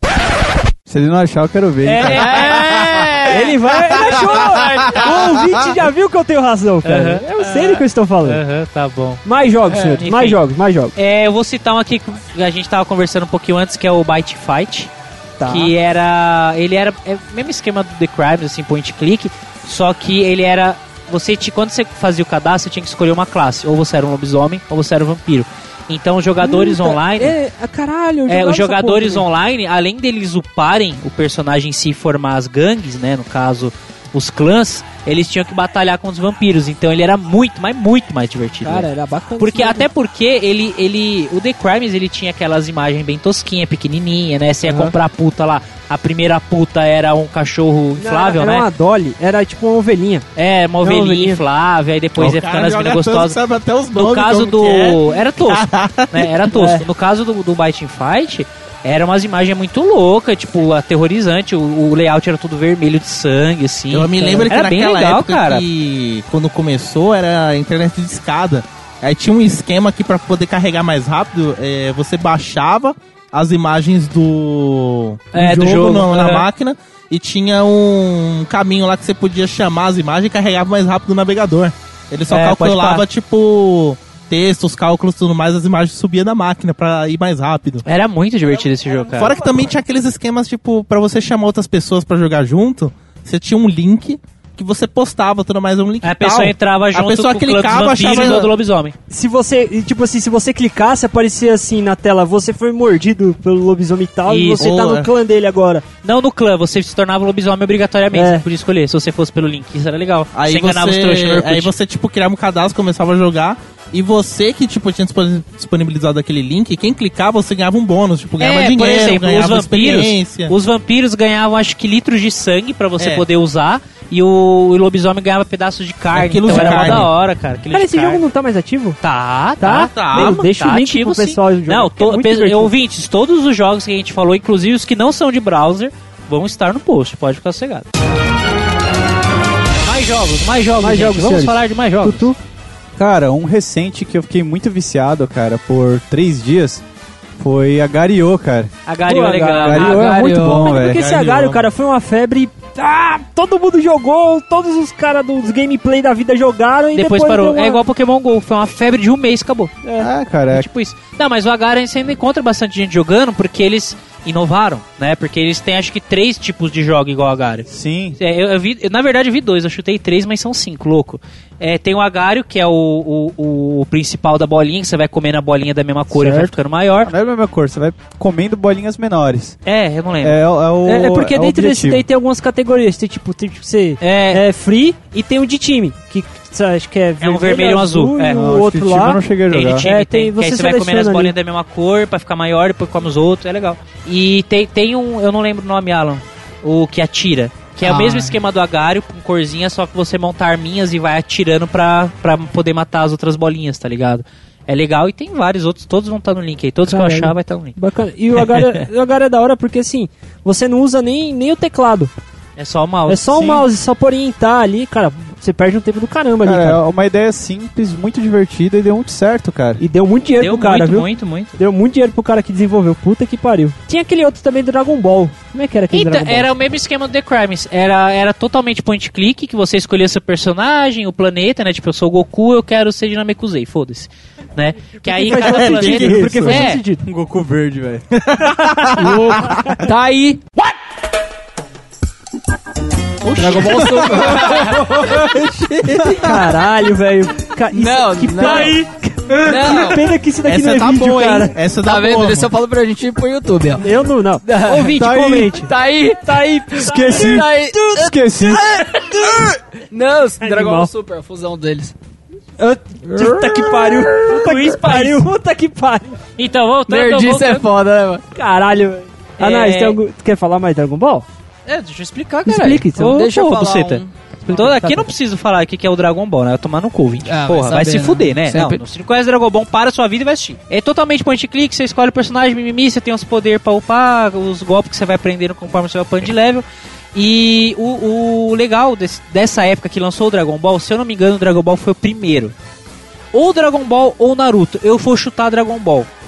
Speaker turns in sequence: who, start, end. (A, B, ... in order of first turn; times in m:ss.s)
0:00.9-0:02.6 A
0:01.9-0:05.0 B
0:02.1-0:03.4 C
0:03.2-0:08.4 D
0:06.8-0:10.4 B
0:09.2-0:11.0 D
0:11.0-0:14.9 B
0:15.4-0:15.7 D
0:15.5-0:27.4 B
0:26.4-0:29.2 D
0:28.3-0:38.9 B
0:38.6-0:39.9 D
0:39.4-0:48.7 B
0:44.6-0:44.9 D
0:48.0-0:50.3 D
0:50.4-0:53.4 B
0:50.8-0:51.4 D
0:52.2-0:56.5 E
0:53.9-1:05.6 B
0:56.5-0:56.8 D
1:03.9-1:27.8 E
1:04.2-1:04.5 D
1:15.3-1:16.5 B
1:22.3-1:23.0 B
1:27.9-1:29.4 B
1:29.1-1:38.5 E
1:36.0-1:39.0 B
1:39.1-1:45.8 D
1:44.3-1:44.7 B
1:44.6-1:45.1 E
1:46.0-1:51.7 B
1:48.1-1:48.4 D
1:50.3-2:00.5 E
1:58.4-2:08.2 B
2:03.0-2:03.2 E
2:06.1-2:07.1 E
2:06.5-2:07.1 D
2:07.7-2:09.0 D
2:09.0-2:17.9 B
2:09.6-2:12.7 D
2:09.8-2:10.4 E
2:19.8-2:22.3 B
2:20.8-2:22.4 D
2:23.0-2:26.8 A
2:27.4-2:28.7 A
2:28.9-2:30.2 B
2:29.1-2:37.8 D
2:29.6-2:31.0 A
2:29.8-2:30.7 C
2:30.7-2:31.7 E
2:37.0-2:39.8 B
2:40.0-2:40.7 A
2:40.5-2:57.1 B
2:47.7-2:48.2 A
2:56.1-2:56.5 D
2:57.0-2:59.6 A
2:59.7-3:00.4 B
3:00.2-3:02.0 A
3:00.9-3:09.2 D
3:04.0-3:04.4 B
3:07.2-3:08.5 B
3:08.3-3:09.9 A
3:09.5-3:27.8 B
3:09.8-3:11.3 D
3:17.8-3:18.4 C
3:26.9-3:32.1 D
3:32.6-3:33.6 B
3:33.1-3:36.8 D
3:33.4-3:33.6 A
3:36.4-3:39.8 A
3:39.8-3:46.5 D
3:40.4-3:41.6 B
3:45.9-3:56.8 B
3:55.0-3:57.0 D
3:55.5-3:56.2 E
3:55.7-3:58.1 A
3:58.2-3:59.2 E
3:59.0-4:00.4 C
4:03.4-4:04.7 C
4:03.4-4:06.4 E
4:03.5-4:03.8 B
4:03.7-4:06.2 A
4:06.1-4:11.6 D
4:07.7-4:08.8 C
4:09.4-4:10.1 C
4:10.4-4:12.5 E
4:11.8-4:13.9 C
4:13.8-4:15.7 D
4:14.4-4:21.9 C
4:14.9-4:15.6 A
4:16.2-4:18.0 D
4:16.8-4:18.9 A
4:20.4-4:20.9 D
4:22.6-4:26.2 D
4:23.2-4:24.4 C
4:24.3-4:25.3 B
4:26.4-4:27.7 B
4:26.9-4:28.2 C
4:28.4-4:31.3 D
4:29.4-4:30.0 B
4:31.7-4:52.5 B
4:32.5-4:33.2 D
4:33.0-4:34.1 C
4:34.5-4:35.1 D
4:37.3-4:38.8 C
4:53.3-4:56.1 B